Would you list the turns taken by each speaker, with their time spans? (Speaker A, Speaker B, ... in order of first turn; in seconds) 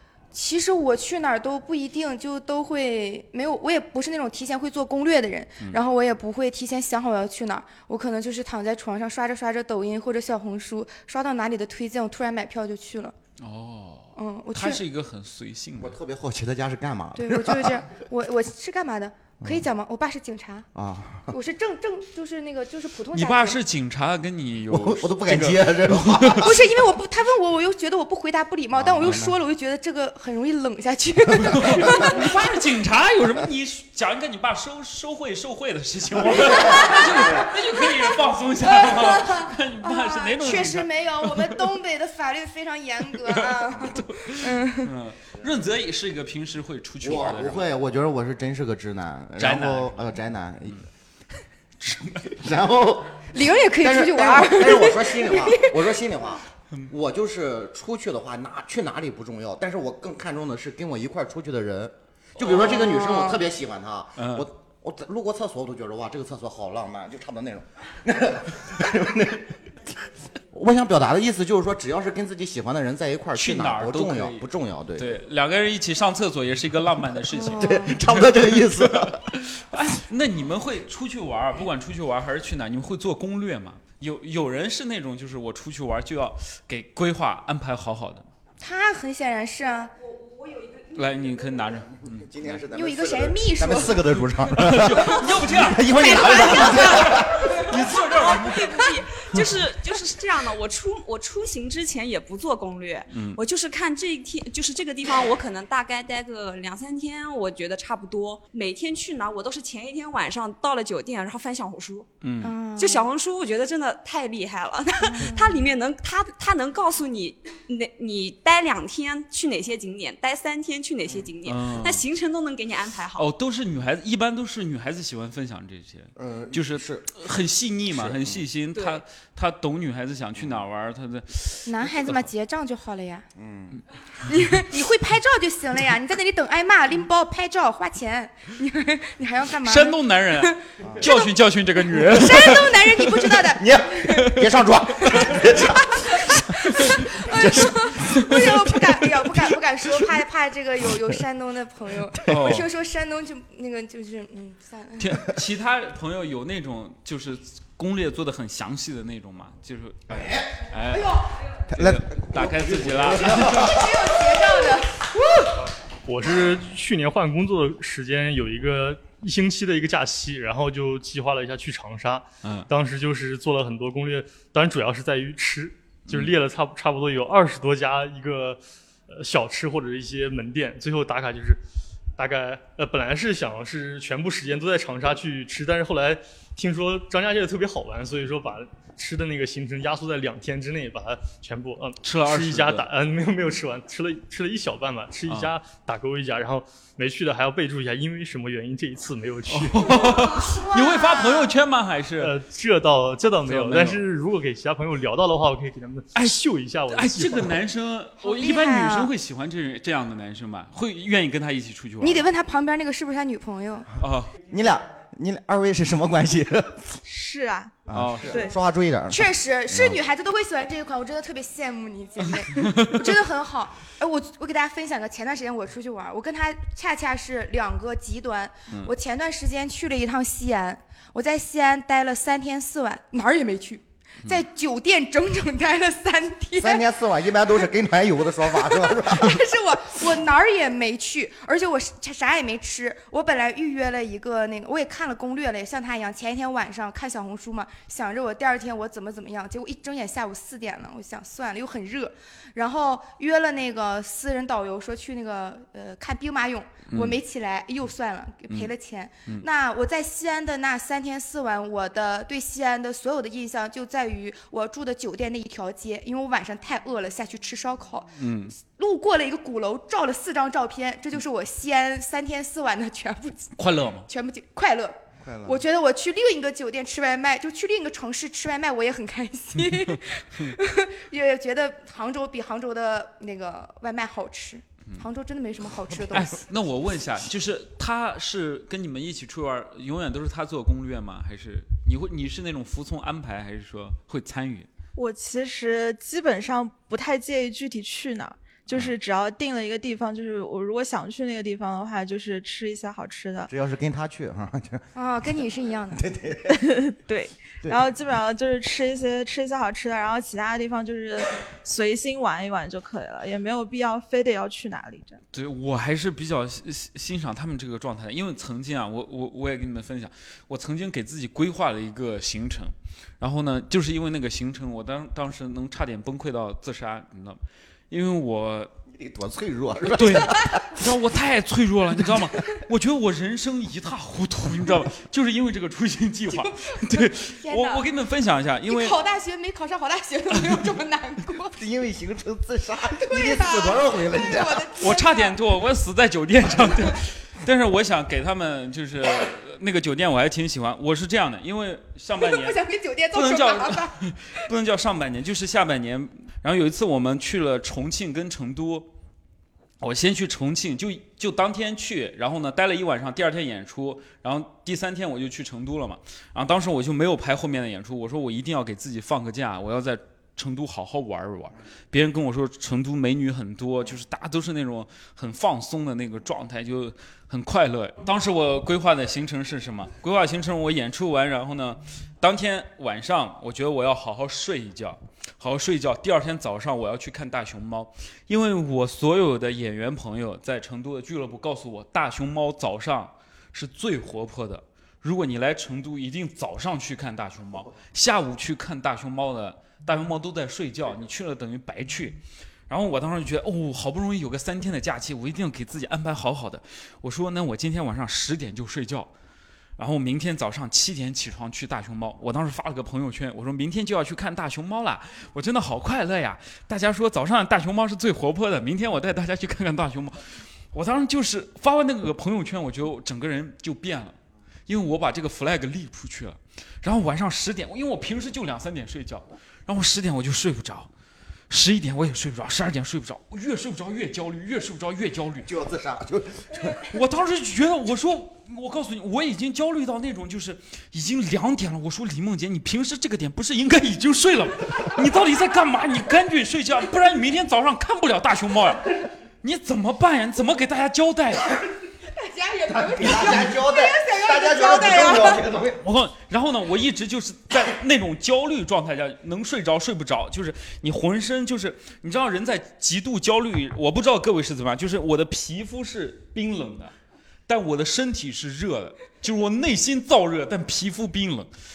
Speaker A: 0.3-13.1, 14.2-14.8, 17.1-20.7, 21.3-23.6, 26.4-32.5, 36.3-44.9, 53.3-55.8, 62.6-63.4, 77.3-78.0, 88.6-89.9, 92.7-94.3, 95.9-97.7, 112.4-113.1, 115.0-115.5, 131.7-133.2, 134.2-141.3, 141.9-144.4, 145.0-145.4, 146.0-155.2, 160.9-161.2, 163.4-165.1, 199.9-201.5, 208.2-209.1, 212.0-213.9, 219.1-236.8, 238.5-273.5, 274.1-286.4, 304.9-306.0, 336.3-337.8, 338.7-341.6, 342.9-345.4, 352.2-354.4, 452.1-455.4
Speaker B: 13.4-16.0, 23.1-26.5, 31.5-41.7, 43.2-47.7, 49.4-50.1, 51.8-52.4, 62.4-62.6, 64.2-64.5, 73.3-88.3, 90.9-92.6, 94.5-99.5, 103.1-103.4, 112.2-112.5, 121.4-122.1, 123.2-132.2, 139.6-143.1, 146.8-148.6, 152.2-152.7, 155.0-163.8, 176.1-176.3, 192.0-192.9, 195.3-195.5, 199.5-202.3, 203.4-204.0, 206.1-212.3, 214.0-214.3, 217.9-218.5, 222.5-223.1, 256.9-257.2, 268.2-268.5, 273.6-274.1, 279.6-280.6, 286.1-294.7, 315.3-328.7, 329.9-339.0, 344.8-352.6, 353.1-358.9, 359.8-409.1, 409.8-424.1, 424.7-430.9, 431.5-435.5, 436.9-451.5, 455.8-466.9, 467.5-471.5
Speaker C: 15.8-17.9, 20.7-21.3, 24.7-26.6, 28.7-29.3, 31.4-32.1, 36.3-37.5, 47.0-50.8, 52.3-69.6, 70.5-75.2, 77.5-79.3, 92.0-97.5, 126.2-127.1, 127.9-128.4, 130.3-130.6, 133.3-133.8, 143.6-148.5, 160.1-160.5, 161.7-163.9, 214.5-217.0, 217.9-220.0, 236.6-239.4, 275.2-275.6, 303.5-304.9, 305.9-306.6, 328.9-330.8, 341.6-344.7, 435.4-436.8, 452.7-455.8
Speaker D: 90.1-90.9, 97.7-112.1, 112.8-123.3, 128.7-129.0
Speaker E: 166.1-181.6, 182.2-200.0, 202.2-207.6
Speaker F: 217.0-218.6, 294.9-303.5, 306.5-315.2